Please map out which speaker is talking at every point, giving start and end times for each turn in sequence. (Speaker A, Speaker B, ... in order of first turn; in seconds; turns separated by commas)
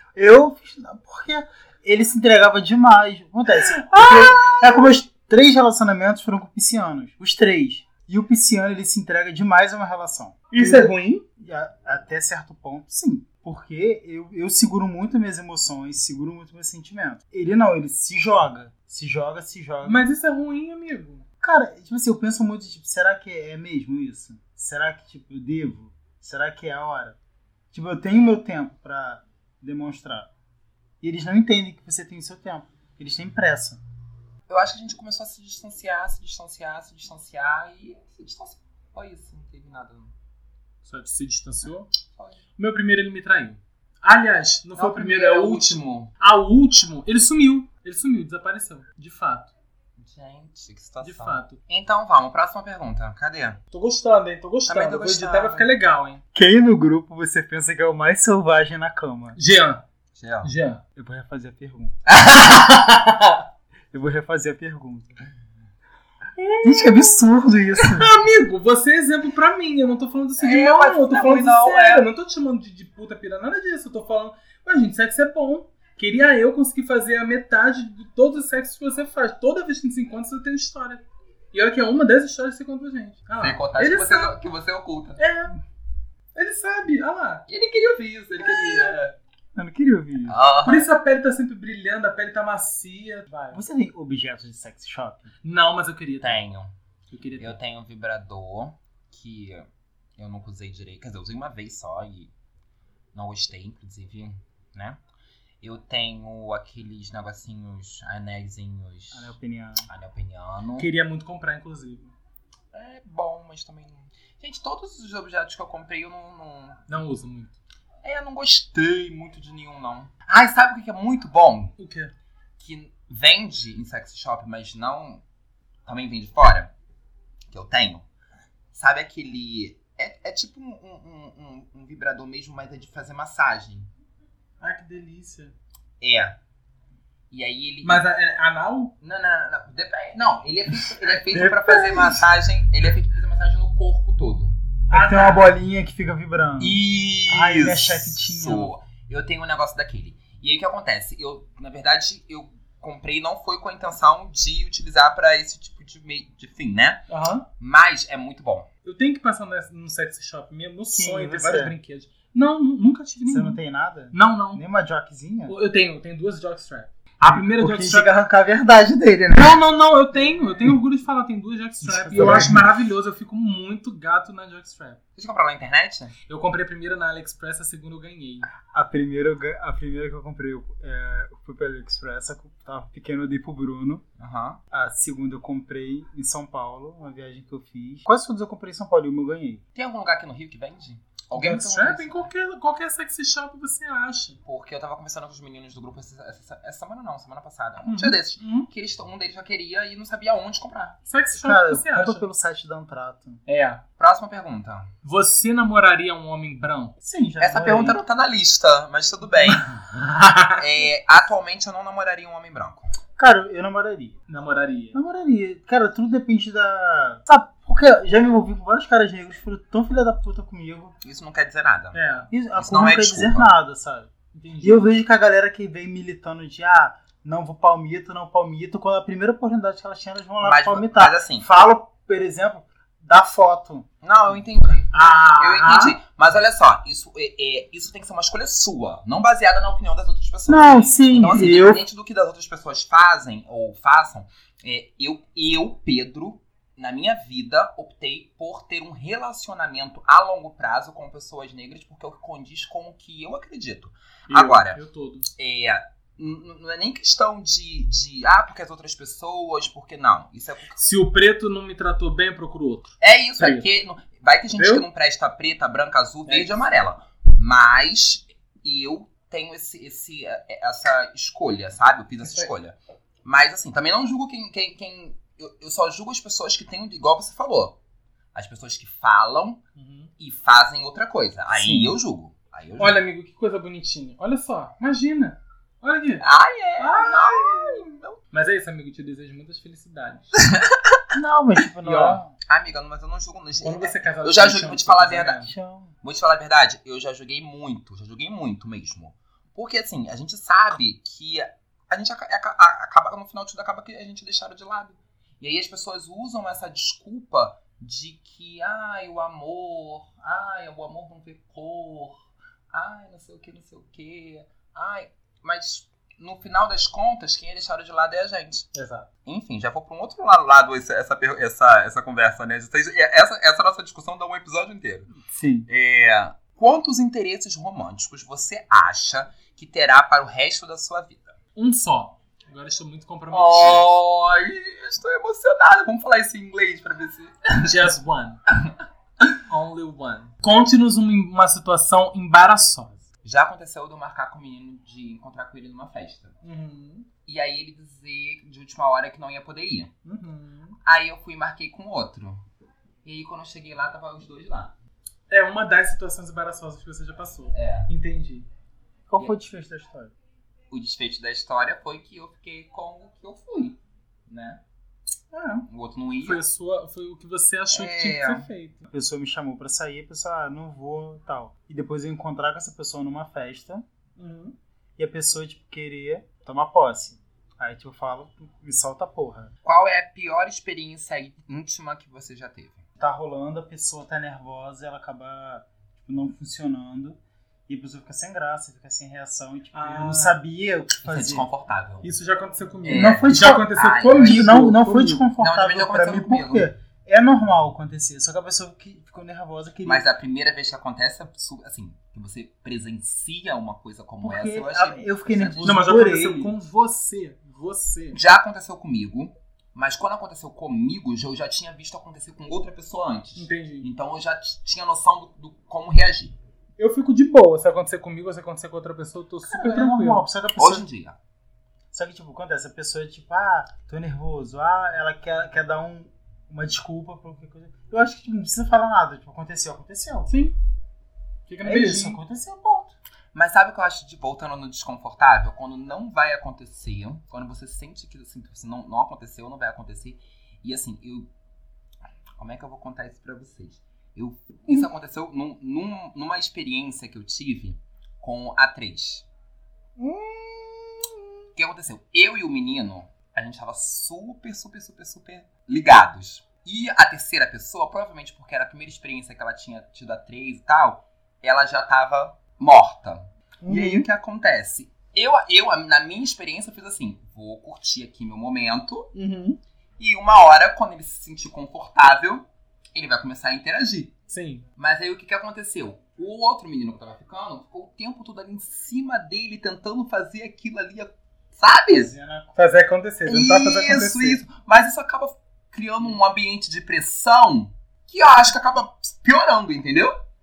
Speaker A: 0.1-20.0, Speaker B: 3.7-4.7, Speaker B: 10.5-11.2, Speaker B: 19.8-21.2, Speaker A: 21.4-27.2, Speaker A: 27.7-30.3, Speaker A: 31.0-33.8, Speaker C: 34.5-40.1, Speaker B: 40.8-41.9, Speaker C: 42.1-42.4, Speaker B: 42.5-49.5, Speaker C: 44.7-46.1, Speaker C: 50.0-53.6, Speaker B: 51.0-51.6, Speaker B: 53.7-56.2, Speaker C: 54.7-55.7, Speaker A: 56.3-59.4, Speaker B: 59.3-59.8, Speaker C: 60.1-60.5, Speaker B: 60.4-60.8, Speaker A: 61.0-62.0, Speaker C: 62.1-62.8, Speaker B: 62.6-63.4, Speaker A: 63.9-65.1, Speaker B: 66.4-67.0, Speaker A: 66.6-68.1, Speaker B: 67.8-84.4, Speaker C: 70.4-72.1, Speaker C: 83.4-85.2, Speaker B: 85.2-85.6, Speaker B: 86.3-87.5, Speaker C: 87.5-89.2, Speaker B: 88.4-88.9, Speaker A: 89.5-90.3, Speaker C: 90.2-90.9, Speaker B: 90.6-93.6, Speaker A: 93.5-95.3, Speaker B: 95.4-96.4, Speaker C: 96.2-96.7, Speaker B: 97.1-97.6, Speaker C: 97.4-99.7, Speaker C: 100.2-102.3, Speaker C: 103.1-105.0, Speaker C: 105.6-109.3, Speaker A: 109.1-109.8, Speaker C: 109.9-110.9, Speaker B: 110.8-112.1, Speaker C: 112.7-116.9, Speaker B: 116.9-117.6, Speaker C: 118.0-121.7, Speaker B: 121.8-122.1, Speaker C: 122.6-125.2, Speaker C: 125.8-126.7, Speaker C: 127.5-128.1, Speaker C: 128.7-133.9, Speaker B: 134.6-135.5, Speaker C: 136.0-136.4, Speaker C: 137.3-138.1, Speaker B: 137.8-138.9, Speaker C: 139.0-144.6, Speaker A: 141.1-142.2, Speaker A: 144.9-148.7, Speaker B: 144.9-145.5, Speaker C: 146.6-157.0, Speaker B: 157.1-157.5, Speaker C: 157.6-158.7, Speaker B: 158.8-163.6, Speaker A: 160.9-161.7, Speaker A: 163.2-165.5, Speaker B: 164.1-164.6, Speaker B: 165.5-168.1, Speaker A: 167.2-169.6, Speaker B: 169.3-175.0, Speaker A: 171.8-172.7, Speaker C: 175.2-176.1, Speaker B: 176.2-178.5, Speaker A: 178.7-184.0, Speaker C: 184.2-184.6, Speaker A: 184.7-189.6, Speaker C: 189.7-192.3, Speaker B: 191.3-194.4, Speaker C: 194.4-200.9, Speaker B: 197.8-198.7, Speaker B: 201.1-202.3, Speaker A: 201.3-203.4, Speaker B: 203.4-203.8, Speaker C: 204.0-204.9, Speaker B: 205.0-206.9, Speaker A: 207.0-208.0, Speaker C: 207.4-209.7, Speaker B: 209.7-210.6, Speaker C: 210.6-212.9, Speaker A: 213.2-214.2, Speaker B: 214.3-215.0, Speaker A: 214.9-220.9, Speaker C: 221.0-222.0, Speaker B: 221.9-222.3, Speaker A: 222.3-224.1, Speaker C: 222.5-223.5, Speaker B: 224.3-224.9, Speaker A: 224.6-233.9, Speaker C: 230.4-231.5, Speaker C: 234.0-254.8, Speaker B: 234.9-235.9, Speaker A: 240.5-241.8, Speaker B: 254.3-255.3, Speaker C: 255.3-260.8, Speaker B: 260.7-263.7, Speaker C: 263.0-277.8, Speaker B: 264.5-264.8, Speaker B: 266.3-266.6, Speaker B: 272.2-272.5, Speaker C: 278.3-279.6, Speaker B: 279.7-280.1, Speaker C: 280.2-283.0, Speaker A: 281.5-282.0, Speaker B: 282.8-286.3, Speaker C: 286.2-288.2, Speaker B: 286.8-290.3, Speaker C: 290.4-291.0, Speaker A: 291.1-292.3, Speaker B: 291.8-292.2, Speaker C: 292.5-295.4, Speaker B: 293.6-295.5, Speaker A: 295.4-295.9, Speaker C: 296.0-318.7, Speaker B: 318.7-319.1, Speaker C: 319.2-325.1, Speaker A: 325.3-325.7, Speaker C: 325.7-331.3, Speaker B: 331.5-333.9, Speaker C: 333.3-337.8, Speaker B: 337.6-338.4, Speaker B: 339.4-343.1, Speaker C: 343.2-346.4, Speaker B: 346.4-347.1, Speaker C: 347.2-349.9, Speaker B: 350.0-350.8, Speaker C: 350.8-352.4, Speaker C: 353.0-354.7, Speaker B: 355.3-358.5, Speaker C: 357.5-357.9, Speaker A: 359.1-360.1, Speaker C: 360.7-364.6, Speaker B: 365.3-365.6, Speaker C: 365.7-366.4, Speaker B: 366.2-368.9, Speaker C: 367.7-368.5, Speaker A: 368.9-373.8, Speaker B: 374.2-374.6, Speaker A: 375.0-379.5, Speaker C: 379.6-382.8, Speaker A: 383.0-391.5, Speaker B: 389.7-390.4, Speaker C: 391.0-392.1, Speaker B: 392.0-395.3, Speaker C: 392.8-394.5, Speaker A: 392.9-400.0, Speaker C: 395.4-396.7, Speaker C: 399.8-405.8, Speaker A: 404.2-406.5, Speaker B: 405.6-408.2, Speaker C: 408.1-416.4, Speaker B: 413.4-413.9, Speaker B: 416.8-420.3, Speaker A: 419.4-420.9, Speaker C: 420.5-421.1, Speaker A: 421.9-430.3, Speaker B: 430.3-430.6, Speaker B: 431.5-432.2, Speaker A: 431.6-432.9, Speaker C: 433.3-441.3, Speaker C: 442.4-449.3, Speaker B: 450.0-451.1, Speaker C: 451.5-469.1, Speaker B: 463.6-464.1, Speaker B: 469.1-469.6, Speaker C: 470.0-474.1, Speaker B: 474.3-474.6, Speaker C: 474.8-482.1, Speaker A: 481.9-482.6, Speaker B: 482.5-484.4, Speaker C: 483.2-490.2